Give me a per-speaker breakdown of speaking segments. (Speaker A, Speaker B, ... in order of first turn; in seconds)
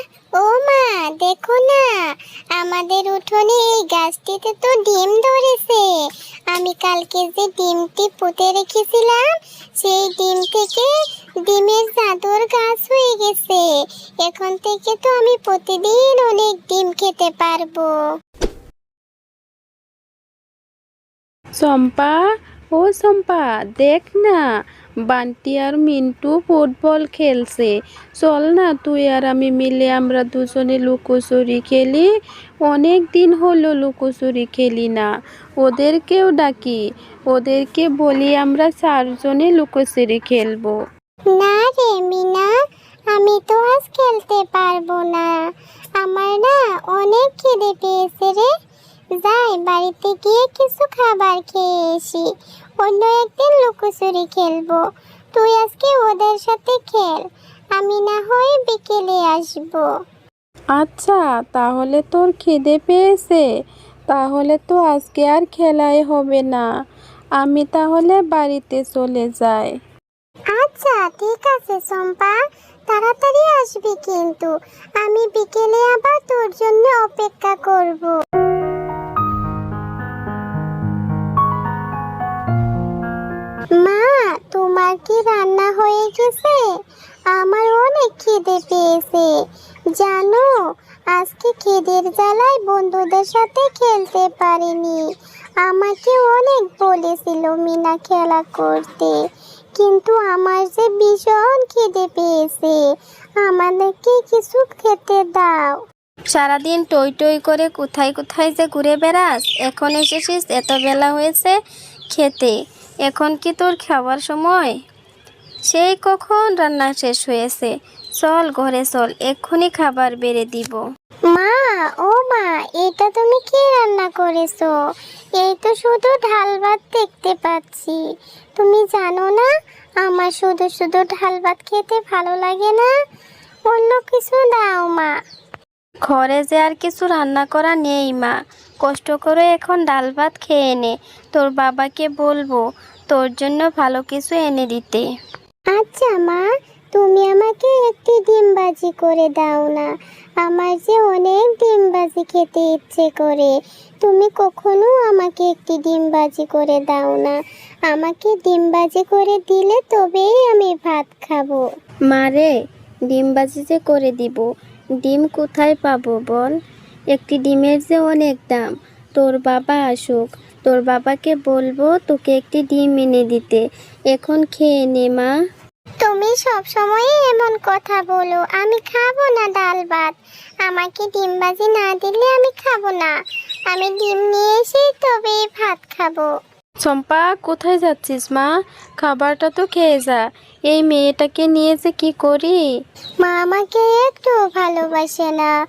Speaker A: 0.4-1.8, 2.6-5.8, 6.5-9.2, 9.8-10.9, 11.4-13.6, 14.2-17.9, 41.3-42.5, 43.1-45.3, 46.0-48.5, 49.2-52.3, 52.8-54.8, 55.3-57.2, 57.8-59.8, 70.5-72.3, 72.9-78.2, 83.8-86.7, 87.3-89.3, 90.0-90.5, 91.1-95.0, 95.6-99.1, 99.8-102.8, 103.4-105.7, 121.3-124.7, 125.4-128.0, 128.6-129.5, 130.0-132.9, 133.7-135.1, 145.7-146.4, 146.9-149.9, 150.4-157.3, 157.9-161.6, 176.0-180.1, 180.6-183.1, 183.7-186.3, 193.2-195.5
Speaker B: 21.6-22.2, 22.7-24.4, 25.1-32.1, 32.6-35.1, 35.6-40.7, 60.7-63.5, 64.1-66.7, 67.4-69.7, 186.8-192.6
Speaker C: 106.3-111.5, 112.1-112.5, 113.0-114.7, 115.7-120.8, 136.0-145.1, 162.1-162.5, 163.1-164.4, 165.0-166.5, 167.1-175.3